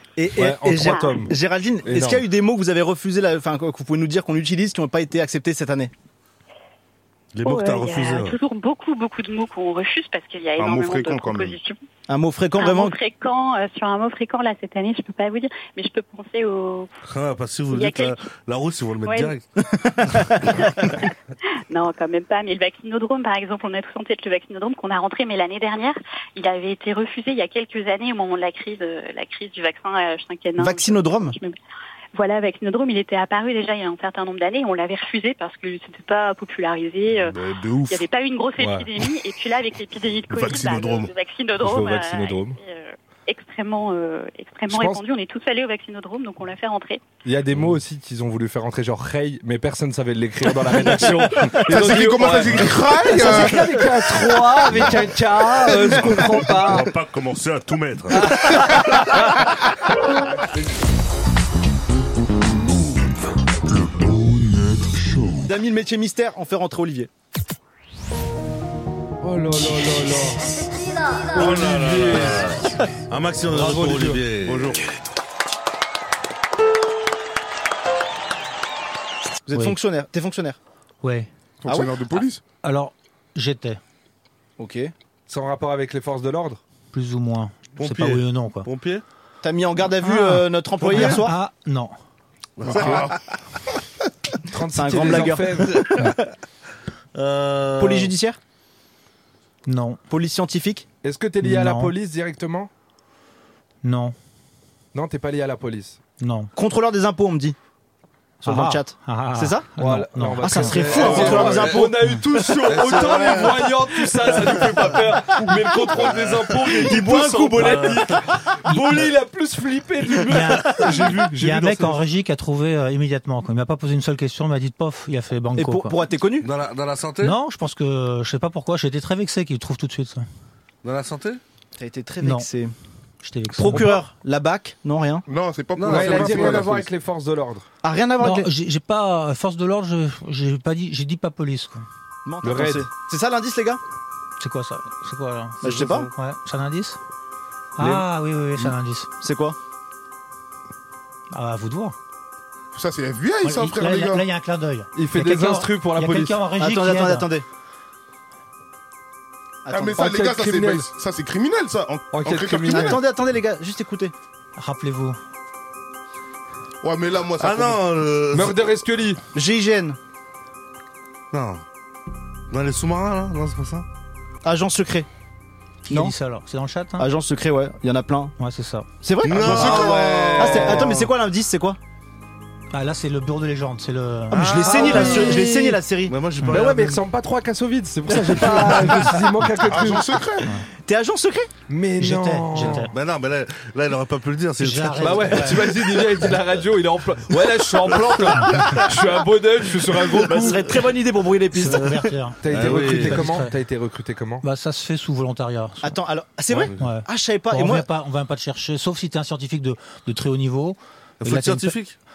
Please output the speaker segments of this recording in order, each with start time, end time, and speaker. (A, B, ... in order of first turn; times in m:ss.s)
0:00.2-0:05.9 A
0:00.4-0:01.3 B
0:00.8-0:01.2 C
0:07.3-0:08.4 D
0:07.4-0:11.8 C
0:10.6-0:11.6 E
0:12.1-0:13.0 A
0:12.6-0:16.9 C
0:17.1-0:19.5 D
0:17.7-0:18.2 C
0:19.0-0:19.3 C
0:19.7-0:20.9 A
0:21.7-0:31.6 C
0:30.6-0:31.4 A
0:32.2-0:47.0 C
0:37.2-0:38.0 E
0:38.6-0:38.9 B
0:40.3-0:41.1 E
0:41.6-0:42.6 B
0:44.7-0:45.0 B
0:47.2-0:56.9 B
0:51.5-0:53.8 E
0:55.9-0:59.3 D
0:58.2-0:59.4 B
1:00.2-1:00.4 B
1:05.4-1:07.1 A
1:09.2-1:10.5 B
1:11.3-1:14.9 D
1:11.4-1:12.5 B
1:13.5-1:14.3 B
1:14.4-1:14.9 E
1:19.5-1:20.6 A
1:21.0-1:21.3 F
1:21.6-1:22.4 E
1:22.6-1:23.8 F
1:24.6-1:24.9 A
1:25.3-1:26.6 B
1:26.9-1:28.7 F
1:27.8-1:29.0 D
1:29.4-1:31.4 A
1:30.0-1:32.0 F
1:32.6-1:33.2 D
1:32.7-1:33.2 E
1:34.5-1:36.1 B
1:34.8-1:36.2 A
1:35.7-1:36.0 D
1:37.2-1:38.1 D
1:37.8-1:38.4 A
1:39.7-1:40.0 F
1:40.1-1:40.8 A
1:41.0-1:42.7 B
1:41.4-1:41.9 F
1:43.8-1:44.2 F
1:44.9-1:46.0 B
1:46.2-1:46.5 F
1:46.6-1:47.6 A
1:48.4-1:50.9 F
1:48.4-1:49.7 A
1:49.8-2:02.0 B
1:50.4-1:52.2 A
1:50.7-1:51.9 D
1:52.6-1:54.8 D
1:56.0-1:56.4 D
1:56.7-1:58.2 A
2:00.3-2:06.0 F
2:05.6-2:06.5 A
2:06.4-2:07.4 D
2:07.2-2:10.3 F
2:10.8-2:11.4 D
2:11.8-2:12.7 A
2:12.2-2:12.5 F
2:13.2-2:14.0 F
2:13.6-2:15.2 A
2:13.7-2:14.0 B
2:15.3-2:16.9 E
2:15.8-2:16.8 D
2:15.8-2:17.7 B
2:17.8-2:18.5 A
2:18.2-2:21.8 F
2:22.3-2:23.8 A
2:22.4-2:22.9 B
2:24.4-2:27.0 F
2:25.6-2:26.1 A
2:25.7-2:26.1 D
2:27.8-2:29.1 F
2:29.2-2:29.6 A
2:31.3-2:32.0 F
2:32.7-2:34.2 E
2:33.4-2:37.3 F
2:34.9-2:36.4 B
2:36.6-2:37.4 A
2:39.7-2:40.0 A
2:39.7-2:43.0 E
2:40.0-2:40.9 B
2:42.1-2:43.0 B
2:42.7-2:44.1 A
2:44.6-2:45.2 F
2:46.8-2:47.8 E
2:47.4-2:48.6 D
2:48.3-2:49.2 B
2:49.3-2:50.0 A
2:51.3-2:51.6 D
2:52.5-2:53.9 D
2:54.4-2:55.1 A
2:55.9-2:57.1 F
2:57.0-2:58.3 A
2:58.4-2:58.9 F
2:59.0-3:01.8 A
2:59.2-3:01.1 D
2:59.4-3:00.3 E
2:59.5-3:01.0 B
3:02.7-3:05.4 F
3:04.3-3:06.1 A
3:04.7-3:05.7 B
3:06.1-3:07.0 D
3:06.5-3:10.2 B
3:08.1-3:09.1 A
3:09.6-3:10.5 E
3:10.8-3:11.5 A
3:11.7-3:12.9 B
3:12.0-3:12.9 F
3:12.6-3:15.6 D
3:14.6-3:15.7 F
3:15.0-3:20.7 B
3:20.2-3:22.1 A
3:21.5-3:23.5 F
3:22.4-3:24.4 B
3:22.5-3:23.3 D
3:24.4-3:26.0 F
3:25.8-3:27.9 A
3:26.5-3:26.8 D
3:26.8-3:31.8 F
3:31.2-3:32.0 D